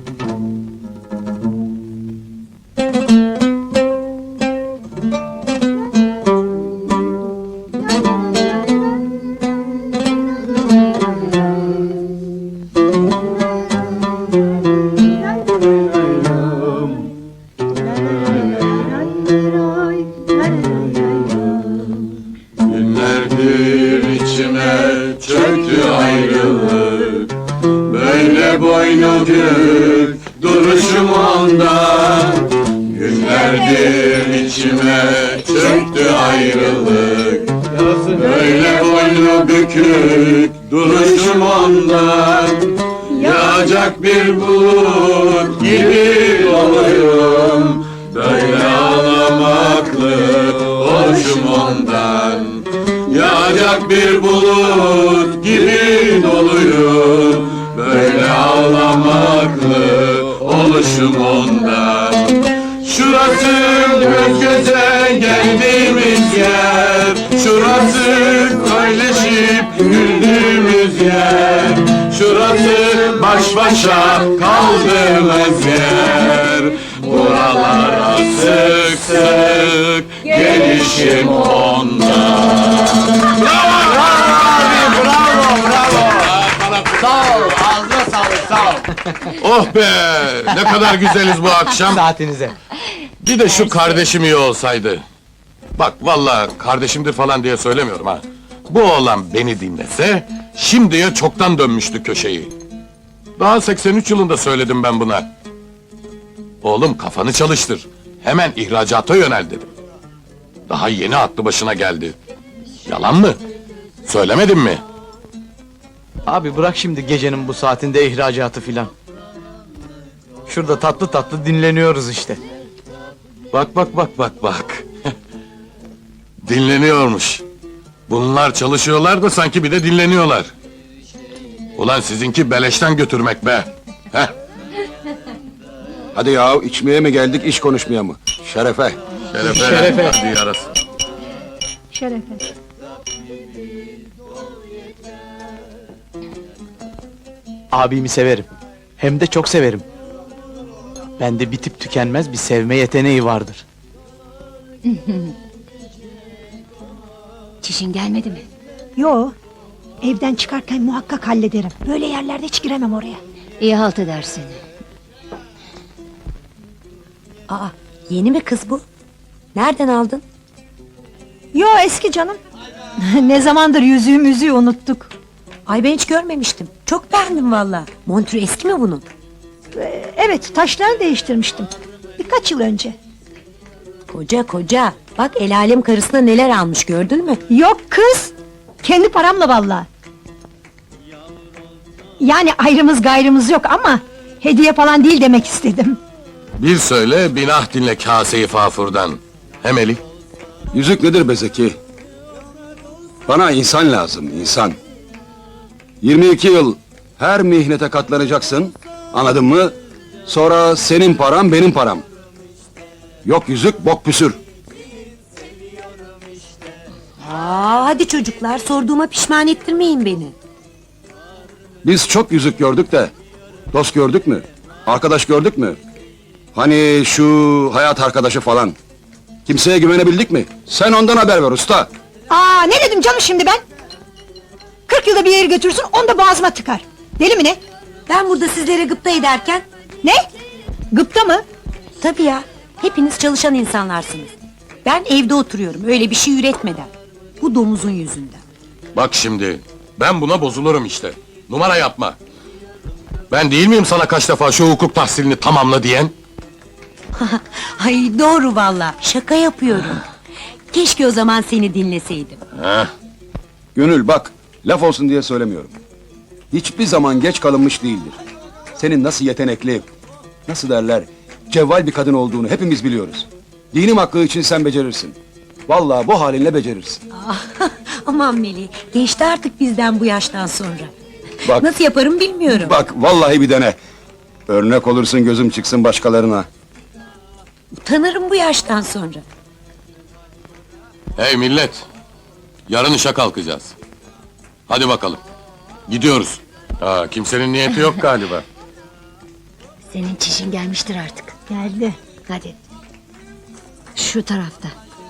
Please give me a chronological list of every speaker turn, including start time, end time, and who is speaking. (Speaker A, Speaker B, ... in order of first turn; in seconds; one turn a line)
Speaker A: 22.6-27.3
Speaker A: 27.8-88.6
Speaker B: 83.9-86.2
Speaker B: 87.2-89.1
Speaker A: 89.2-92.0
Speaker B: 91.7-92.5
Speaker A: 93.2-95.0
Speaker A: 95.7-102.5
Speaker A: 103.4-105.3
Speaker A: 106.6-109.7
Speaker A: 110.7-112.2
Speaker A: 112.8-113.4
Speaker A: 114.0-114.8
Speaker B: 116.2-118.9
Speaker B: 120.5-122.4
Speaker A: 123.5-124.9
Speaker A: 126.4-127.4
Speaker A: 128.1-130.5
Speaker A: 131.8-134.3
Speaker C: 136.1-139.0
Speaker A: 139.3-140.7
Speaker B: 139.4-140.1
Speaker D: 141.9-142.4
Speaker B: 147.7-149.8
Speaker B: 151.2-153.6
Speaker E: 154.8-155.3
Speaker E: 157.6-158.4
Speaker D: 159.0-159.3
Speaker D: 160.0-163.2
Speaker E: 163.6-164.6
Speaker F: 167.5-168.8
Speaker F: 169.5-170.2
Speaker D: 171.5-172.4
Speaker D: 173.0-175.1
Speaker F: 175.7-179.1
Speaker D: 179.7-182.9
Speaker F: 184.1-187.4
Speaker D: 187.5-189.9
Speaker D: 192.2-196.0
Speaker A: 196.6-200.0
Speaker C: 200.7-201.8
Speaker C: 203.3-204.8
Speaker C: 206.0-209.7
Speaker C: 210.2-212.0
Speaker C: 213.2-214.4
Speaker F: 217.2-220.3
Speaker C: 221.8-223.1
Speaker C: 223.7-225.8
Speaker C: 226.5-228.7
Speaker C: 229.4-231.9
Speaker D: 232.3-233.6
Speaker D: 234.9-237.6
Speaker F: 238.1-239.6
Speaker D: 240.9-241.4
Speaker F: 242.0-244.3
Speaker F: 244.8-248.4
Speaker A: 248.9-252.2
Speaker A: 253.3-256.1
Speaker F: 257.2-260.0
Speaker F: 260.7-262.4
Speaker A: 262.5-262.9
Speaker C: 263.7-265.7
Speaker C: 266.5-268.2
Speaker C: 268.8-269.9
Speaker C: 270.5-275.1
Speaker C: 275.7-277.0
Speaker F: 277.1-280.9
Speaker F: 281.4-282.8
Speaker C: 281.4-281.7
Speaker C: 282.5-283.8
Speaker C: 284.5-286.5
Speaker F: 287.8-289.2
Speaker A: 291.1-291.9
Speaker A: 292.7-293.7
Speaker A: 294.7-295.2
Speaker A: 295.9-298.4
Speaker E: 299.9-301.3
Speaker D: 301.5-301.9
Speaker E: 302.3-302.6
Speaker E: 303.9-304.7